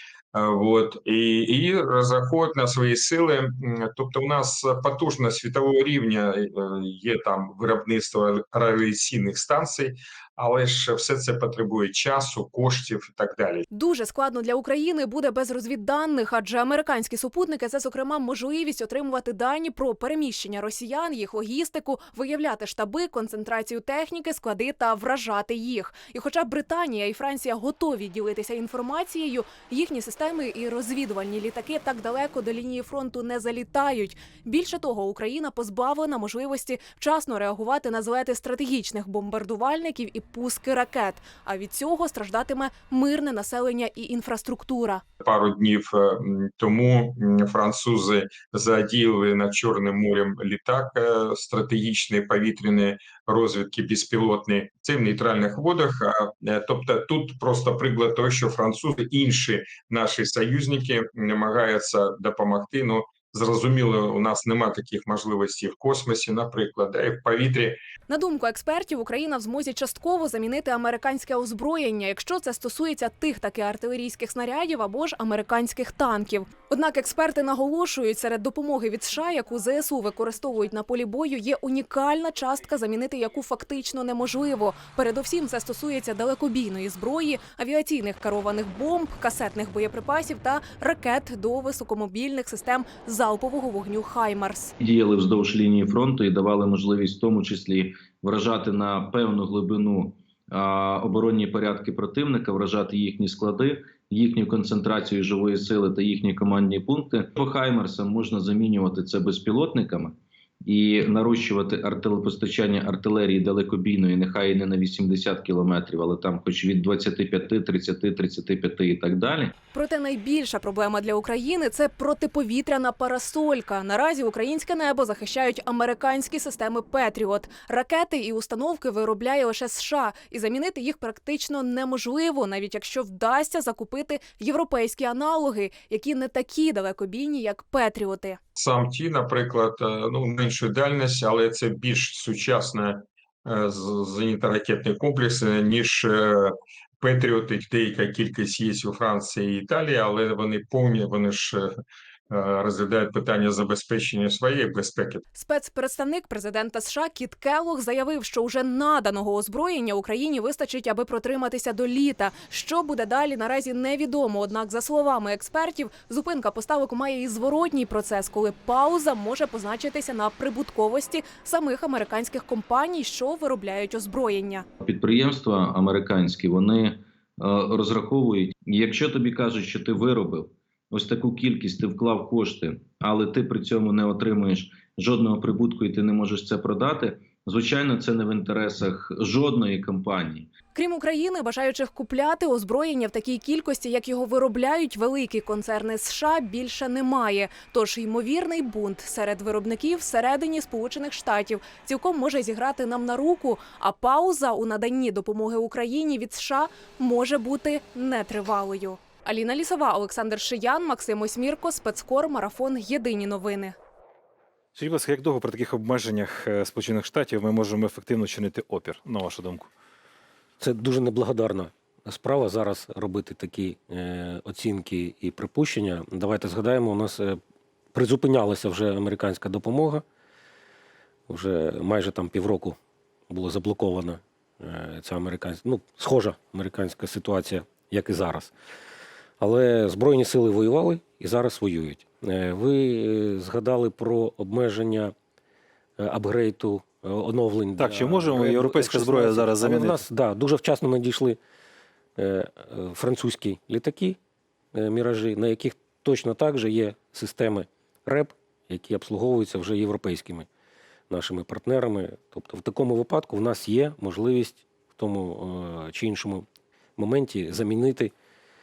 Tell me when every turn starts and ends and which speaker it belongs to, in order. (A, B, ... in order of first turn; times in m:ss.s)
0:00.3-0:13.7 A
0:13.7-0:45.0 B
0:45.2-1:07.8 A
1:08.1-1:34.7 B
1:34.8-1:59.5 C
1:59.7-2:18.4 B
2:18.6-2:31.7 A
2:32.3-2:35.2 A
2:35.4-2:54.7 B
2:54.8-3:10.5 C
3:10.8-3:33.8 B
3:34.8-3:39.7 D
3:40.6-3:47.4 E
3:47.9-3:50.0 E
3:51.3-3:52.8 E
3:53.3-3:58.5 E
3:59.4-4:05.1 E
4:06.0-4:11.4 E
4:07.8-4:10.0 D
4:12.2-4:14.2 E
4:14.7-4:20.5 E
4:21.1-4:26.5 E
4:27.0-4:28.1 E